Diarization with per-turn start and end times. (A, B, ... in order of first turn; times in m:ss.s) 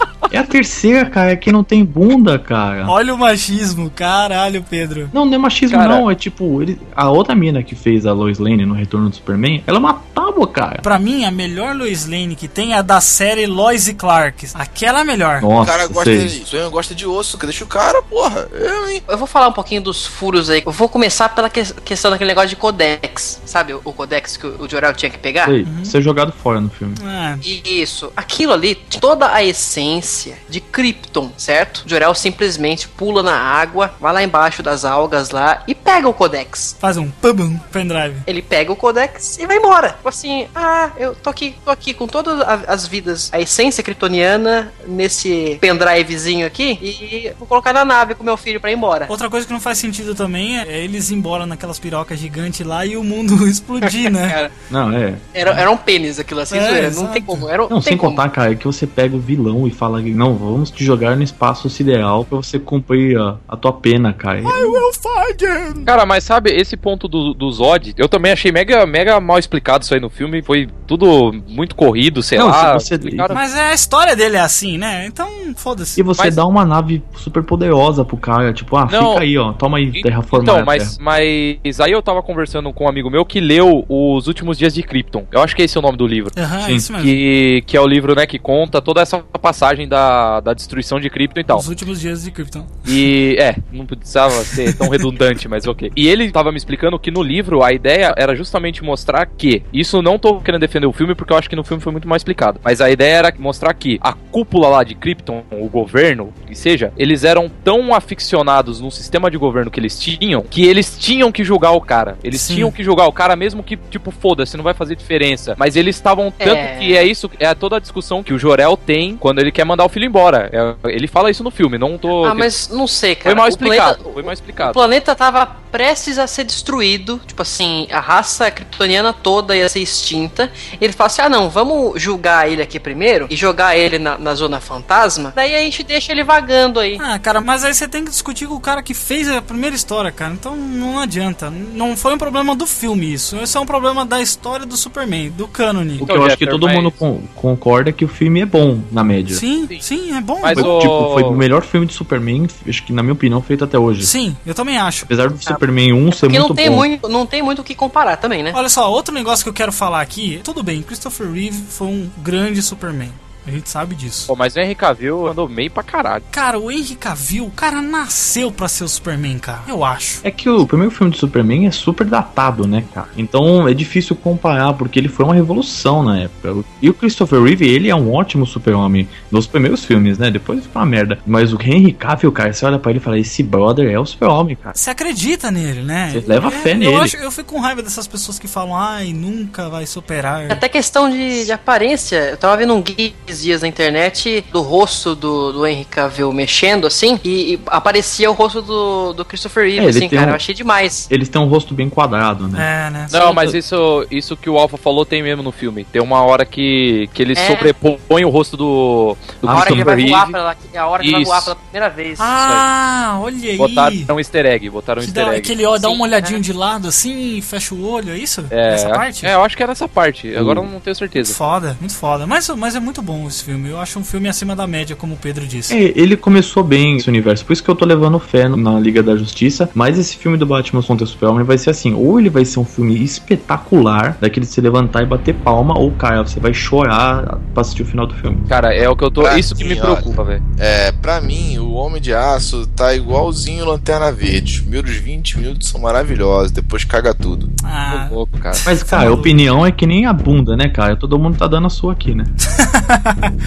0:00.3-0:02.9 A
0:02.9-0:05.1 B
0:05.1-0:10.8 A
0:05.7-0:06.0 C
0:10.8-0:15.5 B
0:15.4-0:16.4 A
0:15.6-0:19.0 D
0:19.1-0:25.5 E
0:25.4-0:27.0 A
0:25.6-0:25.9 B
0:27.0-0:27.4 B
0:27.4-0:36.7 E
0:36.8-0:38.2 B
0:38.3-0:49.1 E
0:49.1-0:54.4 B
0:53.8-0:54.5 E
0:54.7-0:55.2 A
0:55.3-0:58.2 E
0:56.5-0:57.5 B
0:57.7-1:04.8 A
1:04.4-1:05.9 B
1:05.8-1:13.4 C
1:12.4-1:13.4 A
1:13.3-1:16.0 B
1:16.0-1:21.0 A
1:18.9-1:19.2 C
1:19.9-1:26.3 C
1:26.4-1:27.2 B
1:26.6-1:26.9 A
1:27.0-1:31.6 C
1:31.5-1:32.8 B
1:32.8-2:02.5 C
1:52.3-1:52.7 B
1:56.4-1:57.1 E
2:02.2-2:17.0 E
2:03.2-2:04.8 C
2:17.0-2:26.1 B
2:26.0-2:29.4 A
2:26.0-2:27.0 C
2:29.3-2:30.7 B
2:30.4-2:31.4 C
2:30.5-2:34.1 A
2:34.0-2:35.1 B
2:35.0-2:36.9 A
2:36.1-2:38.6 E
2:38.5-2:44.3 B
2:44.3-2:46.2 C
2:46.3-2:50.2 B
2:50.2-3:04.7 A
3:04.7-3:10.6 B
3:06.1-3:07.1 A
3:10.5-3:21.1 E
3:19.8-3:20.4 A
3:21.1-3:22.7 A
3:22.5-3:23.2 B
3:23.1-3:30.4 C
3:27.3-3:27.7 E
3:29.4-3:30.0 A
3:29.5-3:32.4 E
3:31.0-3:31.5 C
3:32.2-3:34.1 B
3:33.6-3:35.6 C
3:35.0-3:39.3 B
3:35.7-3:36.4 E
3:38.5-3:41.4 C
3:40.3-3:40.7 A
3:41.2-3:45.8 B
3:45.7-3:58.4 A
3:58.5-4:00.4 C
3:59.2-4:07.5 D
4:07.6-4:09.4 B
4:07.9-4:08.6 C
4:08.6-4:12.3 A
4:12.6-4:13.3 B